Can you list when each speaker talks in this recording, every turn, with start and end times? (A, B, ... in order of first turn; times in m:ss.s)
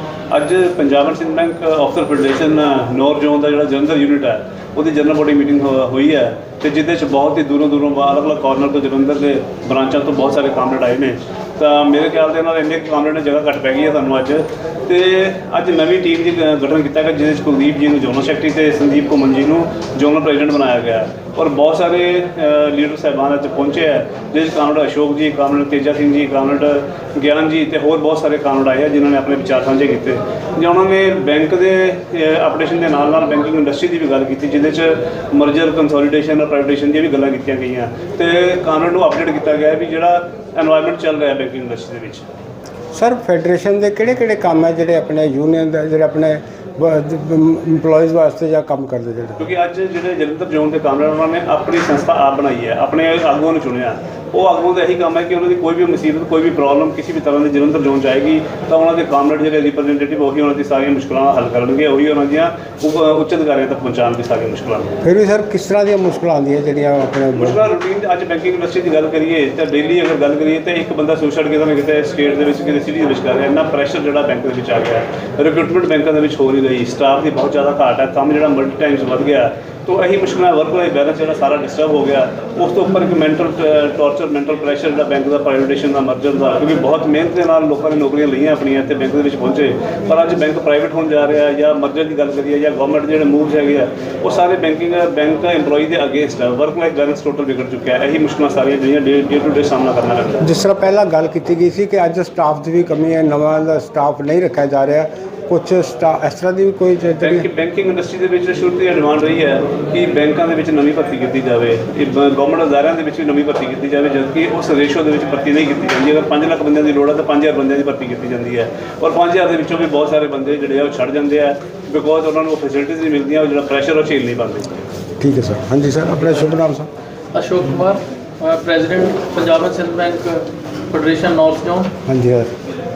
0:00.3-0:42.2 A
0:42.9-0:49.4 B
0:49.4-1:05.0 A
1:05.0-1:07.6 B
1:07.3-1:40.5 A
1:40.4-1:47.5 B
1:47.2-2:04.8 A
2:05.2-2:06.9 B
2:07.3-2:11.9 C
2:12.0-2:12.5 B